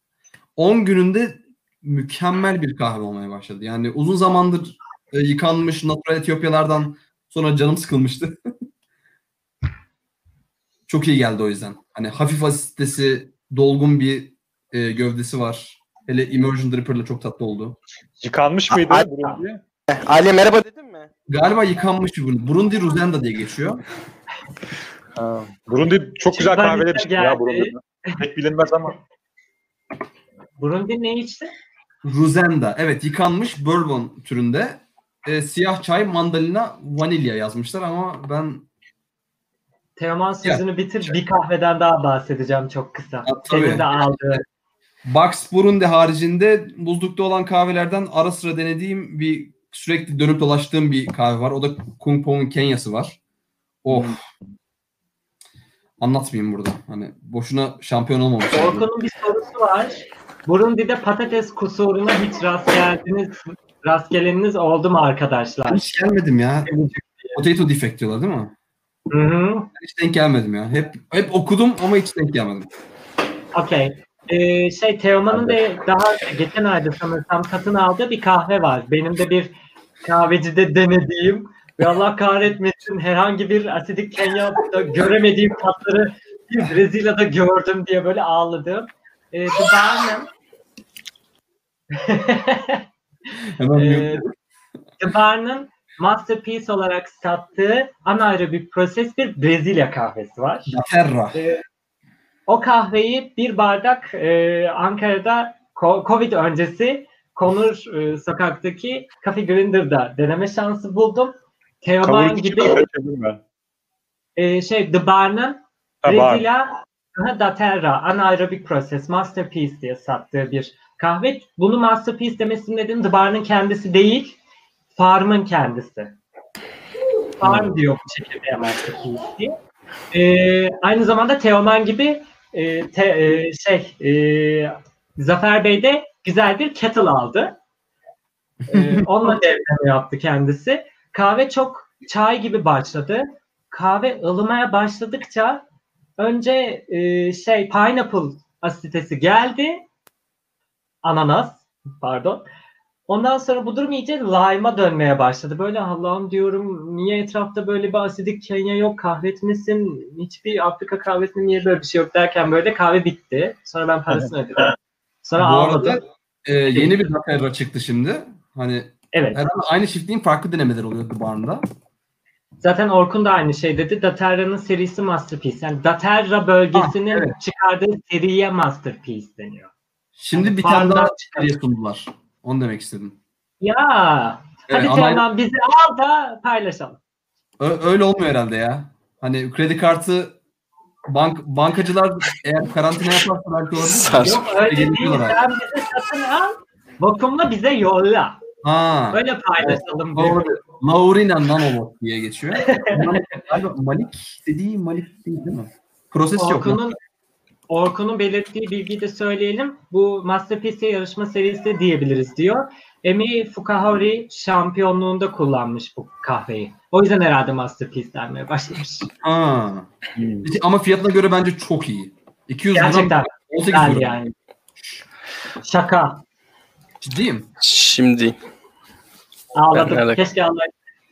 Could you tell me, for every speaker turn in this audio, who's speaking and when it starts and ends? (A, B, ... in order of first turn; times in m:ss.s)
0:00.6-0:08.5 A
0:10.9-0:17.8 A
0:18.2-0:19.6 B
0:19.9-0:21.1 C
0:21.3-0:23.8 A
0:25.2-0:29.0 B
0:26.3-0:28.2 D
0:30.6-0:31.5 D
0:32.0-0:38.6 A
0:40.0-0:44.4 D
0:40.4-0:41.2 A
0:43.2-0:44.4 A
0:45.0-0:53.2 A
0:53.8-0:54.2 A
0:56.0-0:58.8 A
0:58.5-1:05.9 D
1:05.7-1:06.7 A
1:06.6-1:07.4 D
1:07.3-1:08.5 A
1:09.1-1:09.7 D
1:09.8-1:12.7 A
1:13.5-1:30.3 D
1:31.9-1:32.8 D
1:33.6-1:34.3 A
1:33.7-1:34.2 D
1:35.0-1:40.7 D
1:40.7-1:41.4 A
1:41.3-1:41.6 D
1:42.5-1:52.8 D
1:52.0-1:53.4 B
1:54.4-2:04.4 D
1:56.0-1:56.5 B
2:04.9-2:06.2 D
2:07.4-2:09.6 D
2:07.4-2:07.7 B
2:10.1-2:17.6 D
2:18.7-2:25.6 D
2:18.7-2:19.1 A
2:26.2-2:29.8 D
2:31.0-2:32.4 D
2:33.1-2:46.0 D
2:45.4-2:51.6 A
2:49.1-2:49.4 D
2:52.6-2:59.7 D
2:56.7-2:57.3 A
3:00.2-3:03.2 A
3:00.3-3:01.5 D
3:03.6-3:07.0 D
3:04.7-3:05.2 A
3:07.6-3:10.4 A
3:11.1-3:15.4 A
3:13.8-3:14.4 C
3:14.2-3:18.4 D
3:18.6-3:26.9 A
3:19.1-3:20.5 D
3:22.5-3:23.4 D
3:26.4-3:27.0 D
3:27.7-3:39.1 D
3:39.2-3:39.9 A
3:40.2-3:40.5 B
3:40.4-3:44.2 A
3:42.7-3:44.3 D
3:45.6-3:46.2 D
3:47.0-3:47.5 A
3:47.6-3:48.4 C
3:49.5-3:50.7 D
3:49.7-3:50.2 C